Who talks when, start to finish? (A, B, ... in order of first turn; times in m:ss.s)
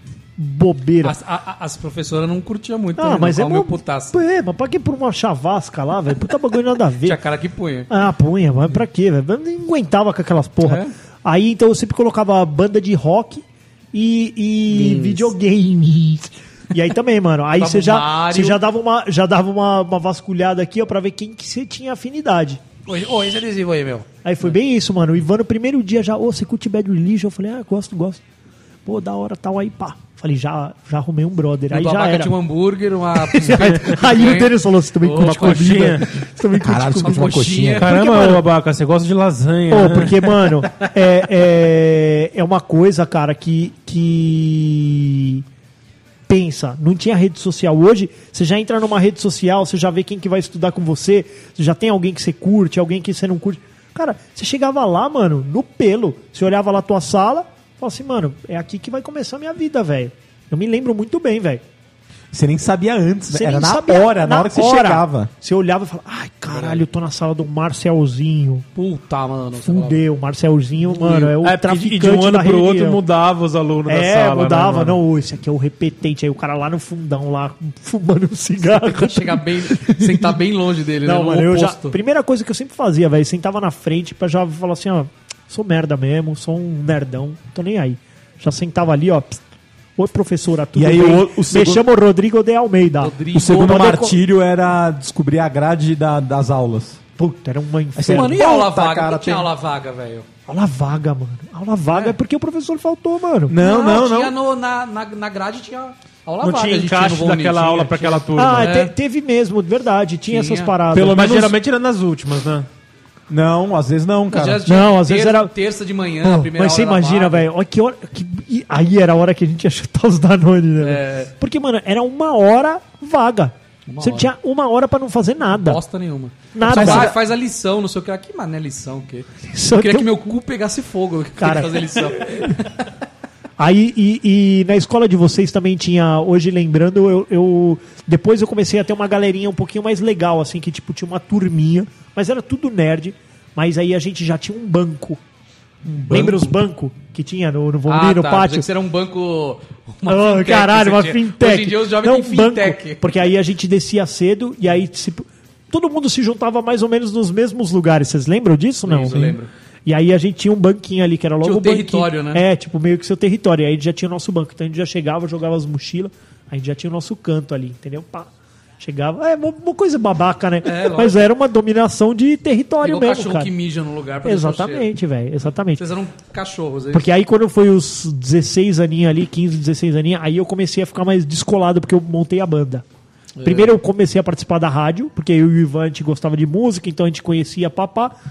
0:00.4-0:01.2 A
0:01.0-0:04.2 B
0:03.0-0:07.2 A
0:07.0-0:07.9 B
0:07.9-0:22.6 A
0:10.6-0:10.9 B
0:14.7-0:15.3 B
0:17.6-0:18.6 B
0:22.9-0:24.5 B
0:24.2-0:28.2 A
0:28.9-0:32.3 A
0:31.7-0:35.9 B
0:33.2-0:38.5 A
0:35.2-0:36.1 C
0:36.6-0:37.9 D
0:37.0-0:38.0 B
0:37.8-0:40.7 C
0:39.7-0:45.4 A
0:46.3-1:01.6 A
1:02.3-1:05.3 D
1:03.3-1:08.7 A
1:06.5-1:06.8 B
1:08.8-1:10.0 B
1:09.6-1:13.0 A
1:10.9-1:11.2 B
1:11.2-1:15.0 C
1:13.9-1:20.4 A
1:18.6-1:22.0 B
1:21.0-1:29.4 A
1:30.0-1:34.2 A
1:30.8-1:31.8 D
1:33.0-1:34.0 B
1:33.3-1:37.0 D
1:37.2-1:38.4 A
1:38.0-1:39.5 D
1:38.1-1:40.3 B
1:40.5-1:43.6 A
1:43.5-1:44.4 D
1:43.6-1:48.9 B
1:46.4-1:48.8 C
1:48.4-1:51.4 A
1:50.3-1:50.8 B
1:50.9-1:52.7 C
1:51.0-1:51.5 D
1:53.3-1:54.6 D
1:54.3-1:57.5 B
1:54.7-1:55.5 A
1:56.2-2:05.8 A
2:00.8-2:01.3 B
2:03.9-2:04.3 B
2:05.6-2:12.8 B
2:06.5-2:07.2 A
2:06.7-2:07.1 D
2:09.5-2:10.2 A
2:11.4-2:12.4 A
2:13.6-2:25.2 A
2:26.1-2:28.7 A
2:26.1-2:26.5 B
2:27.9-2:33.1 B
2:30.1-2:48.3 A
2:38.8-2:39.5 B
2:41.4-2:42.4 B
2:48.8-2:53.5 A
2:50.6-2:51.2 B
2:52.8-2:54.9 B
2:54.2-2:55.8 A
2:55.8-2:57.1 B
2:56.9-3:02.8 A
3:03.4-3:03.7 B
3:03.4-3:08.1 A